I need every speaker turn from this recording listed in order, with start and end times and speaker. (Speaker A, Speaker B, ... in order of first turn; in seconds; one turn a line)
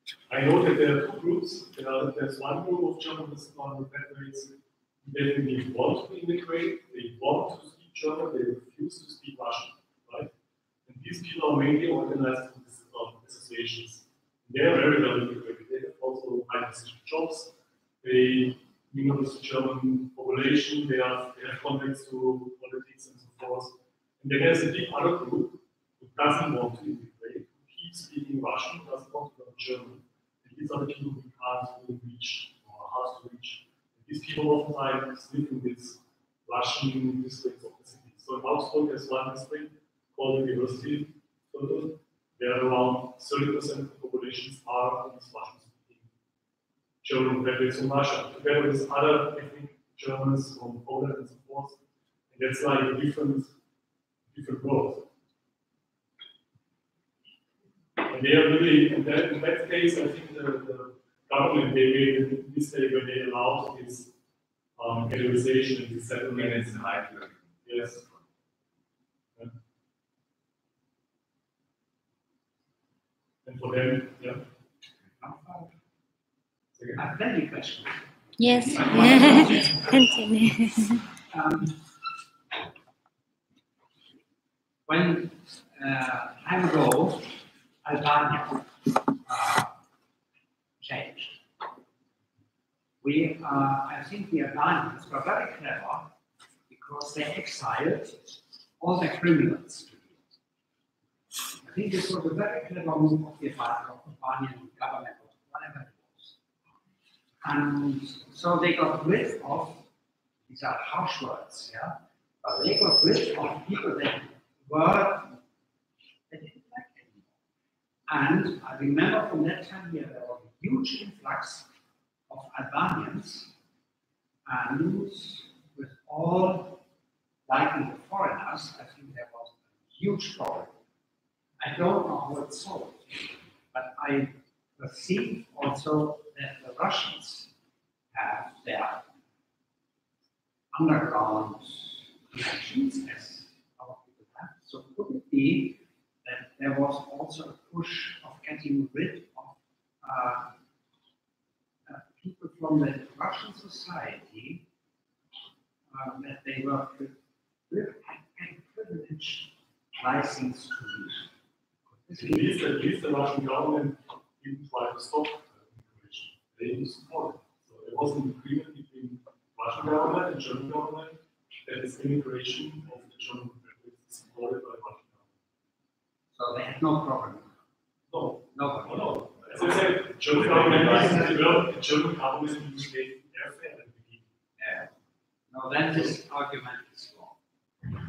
Speaker A: 0.3-10.3
Speaker A: 10.8-46.1
Speaker A: 47.0-51.8
Speaker A: 52.3-53.5
Speaker A: 54.3-55.1
Speaker A: 58.1-64.1
Speaker A: 64.8-66.9
Speaker B: 66.3-68.2
Speaker A: 67.6-68.0
Speaker A: 73.4-74.4
Speaker C: 75.2-75.8
Speaker A: 76.8-77.0
Speaker C: 77.0-80.0
Speaker D: 78.4-81.0
Speaker C: 81.3-81.8
Speaker C: 84.8-89.7
Speaker C: 90.8-91.4
Speaker C: 93.0-96.1
Speaker C: 96.7-100.3
Speaker C: 101.6-106.3
Speaker C: 107.4-109.8
Speaker C: 110.5-115.4
Speaker C: 116.3-117.3
Speaker C: 118.1-121.7
Speaker C: 122.3-123.5
Speaker C: 124.5-126.8
Speaker C: 127.5-130.7
Speaker C: 131.6-137.5
Speaker C: 138.1-139.1
Speaker C: 140.7-150.5
Speaker C: 151.8-154.6
Speaker C: 155.9-157.2
Speaker C: 157.7-161.3
Speaker C: 161.9-162.6
Speaker A: 162.2-175.3
Speaker C: 176.3-177.6
Speaker A: 178.1-184.3
Speaker C: 178.5-179.8
Speaker B: 180.3-181.3
Speaker C: 180.3-181.5
Speaker C: 184.6-184.9
Speaker C: 185.5-187.4